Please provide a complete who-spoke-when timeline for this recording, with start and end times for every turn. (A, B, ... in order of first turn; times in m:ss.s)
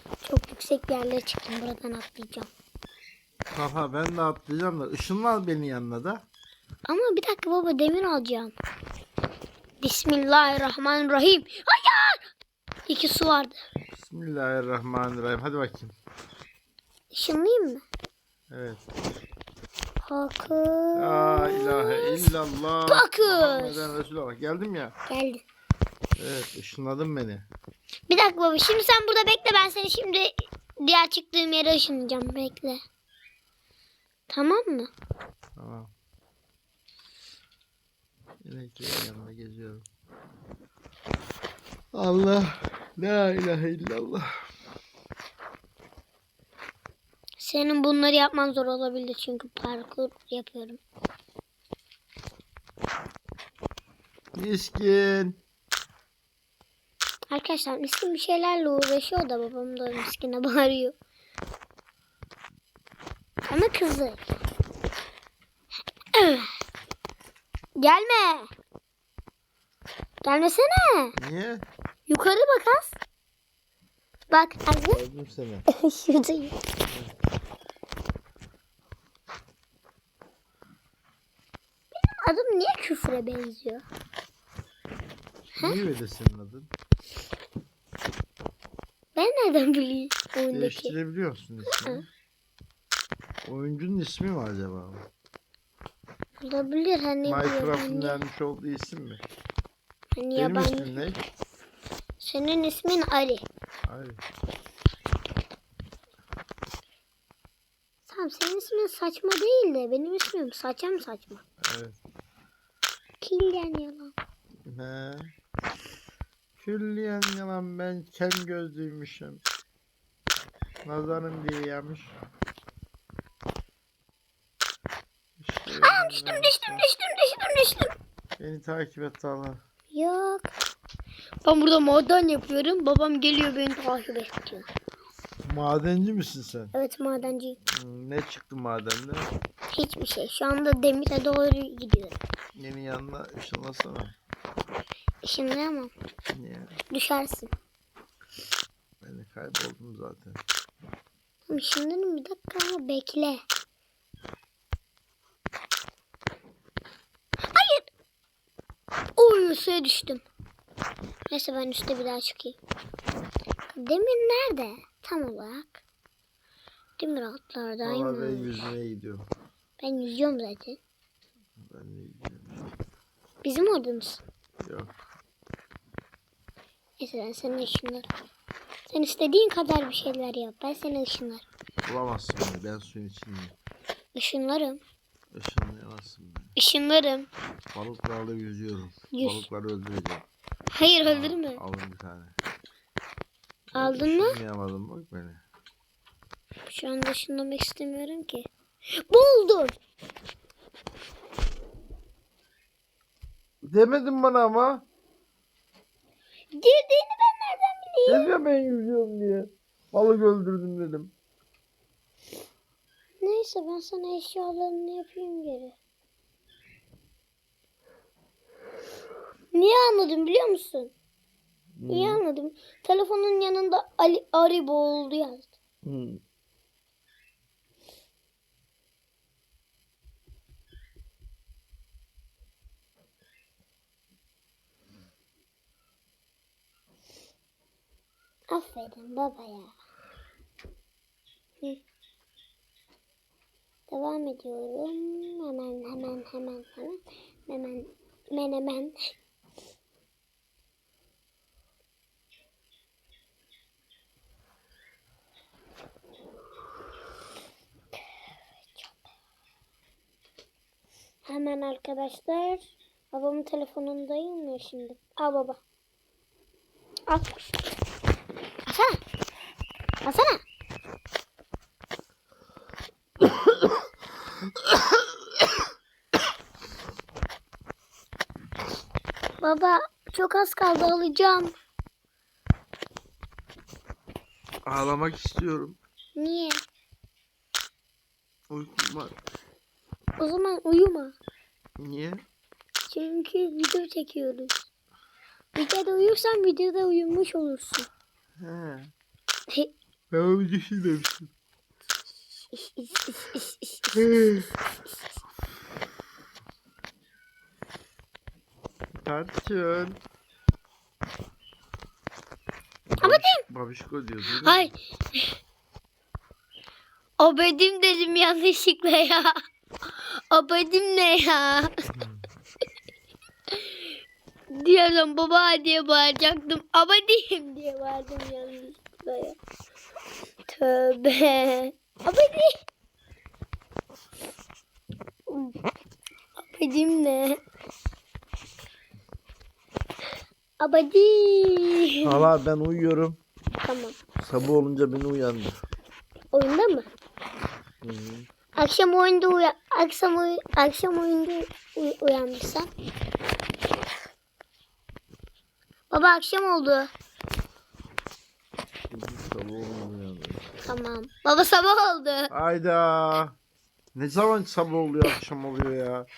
0:00.2-0:02.5 A
0:03.5-0:06.2 B
0:06.8-0:08.5 A
0:09.8-0:12.2 A
0:12.9-0:13.6 A
0:14.0-0:15.9 B
0:17.1-0:17.8 A
0:18.5-0:18.8 B
0:20.1-0:22.3 A
0:20.9-0:24.9 B
0:22.9-0:23.9 A
0:25.1-0:25.4 A
0:26.2-0:27.5 B
0:28.1-0:32.8 A
0:34.3-0:34.9 A
0:35.6-0:35.9 B
0:38.4-0:39.8 B
0:41.9-0:44.4 B
0:47.4-0:50.8 A
0:54.3-0:55.4 B
0:57.3-1:00.9 A
1:03.4-1:04.2 A
1:06.1-1:06.5 A
1:07.8-1:08.5 A
1:10.2-1:11.1 A
1:11.2-1:11.6 B
1:12.1-1:13.0 A
1:14.3-1:15.0 A
1:14.8-1:15.6 B
1:15.7-1:16.5 A
1:22.0-1:23.8 A
1:25.6-1:26.7 B
1:29.1-1:30.9 A
1:30.5-1:32.1 B
1:31.6-1:32.0 A
1:33.4-1:35.0 B
1:36.4-1:38.2 A
1:37.2-1:39.2 B
1:40.2-1:41.0 A
1:40.4-1:41.2 B
1:42.2-1:43.4 A
1:43.9-1:44.2 B
1:48.1-1:51.4 A
1:51.6-1:52.0 B
1:53.2-1:54.1 A
1:54.6-1:55.3 B
1:56.6-1:59.4 B
2:00.8-2:02.2 B
2:05.4-2:06.9 B
2:05.8-2:07.9 A
2:08.4-2:09.6 B
2:09.9-2:10.5 A
2:11.4-2:14.7 A
2:15.4-2:16.7 B
2:16.7-2:17.6 A
2:17.7-2:19.3 B
2:19.7-2:22.2 A
2:22.6-2:24.1 B
2:25.2-2:25.9 A
2:26.3-2:26.8 B
2:26.9-2:27.5 A
2:29.0-2:30.4 B
2:31.5-2:33.4 A
2:37.5-2:37.9 A
2:39.2-2:40.2 A
2:41.3-2:42.6 A
2:43.7-2:45.8 A
2:47.0-2:48.7 A
2:47.8-2:49.3 B
2:49.8-2:50.8 A
2:51.6-2:52.6 B
2:53.4-2:54.2 A
2:54.6-2:54.9 B
2:57.0-2:58.1 A
2:58.9-3:01.4 A
3:01.8-3:03.5 B
3:04.1-3:04.8 A
3:05.3-3:06.5 B
3:06.6-3:07.3 A
3:07.7-3:10.2 B
3:09.1-3:09.5 A
3:10.7-3:11.6 A
3:11.0-3:12.3 B
3:13.7-3:15.4 B
3:13.7-3:14.4 A
3:16.7-3:18.5 A
3:19.1-3:19.8 A
3:23.6-3:24.8 B
3:26.5-3:28.3 A
3:28.1-3:31.1 B
3:33.2-3:35.8 A
3:39.5-3:40.9 A
3:41.8-3:42.2 B
3:41.9-3:45.5 A
3:45.8-3:46.2 B
3:58.5-3:59.7 A
4:03.9-4:09.1 A
4:21.2-4:25.6 A
4:27.1-4:27.6 A
4:28.6-4:29.0 A
4:30.0-4:30.4 A
4:39.4-4:41.5 A
4:44.6-4:45.8 B
4:46.2-4:46.6 A
4:48.5-4:49.2 B
4:50.2-4:51.2 A
4:51.8-4:52.2 B
4:52.9-4:54.6 A
4:55.5-4:57.9 A
4:58.4-4:58.9 B
5:00.1-5:01.3 B
5:02.5-5:04.0 A
5:03.9-5:04.5 B
5:08.9-5:10.0 B
5:12.9-5:14.7 B
5:13.0-5:13.4 A
5:14.3-5:15.3 A
5:17.2-5:19.3 A
5:19.9-5:21.7 A
5:21.9-5:22.2 B
5:23.5-5:23.9 A
5:24.5-5:29.4 A
5:30.5-5:32.6 A
5:35.3-5:35.5 A
5:36.4-5:37.4 A
5:40.6-5:42.3 A
5:42.0-5:43.2 B
5:43.6-5:44.0 A
5:44.2-5:45.5 B
5:46.3-5:46.9 A
5:47.8-5:48.3 B
5:48.6-5:52.7 A
5:55.9-5:56.9 A
5:58.9-6:00.4 B
6:00.6-6:02.3 A
6:02.3-6:03.4 B
6:03.9-6:06.1 B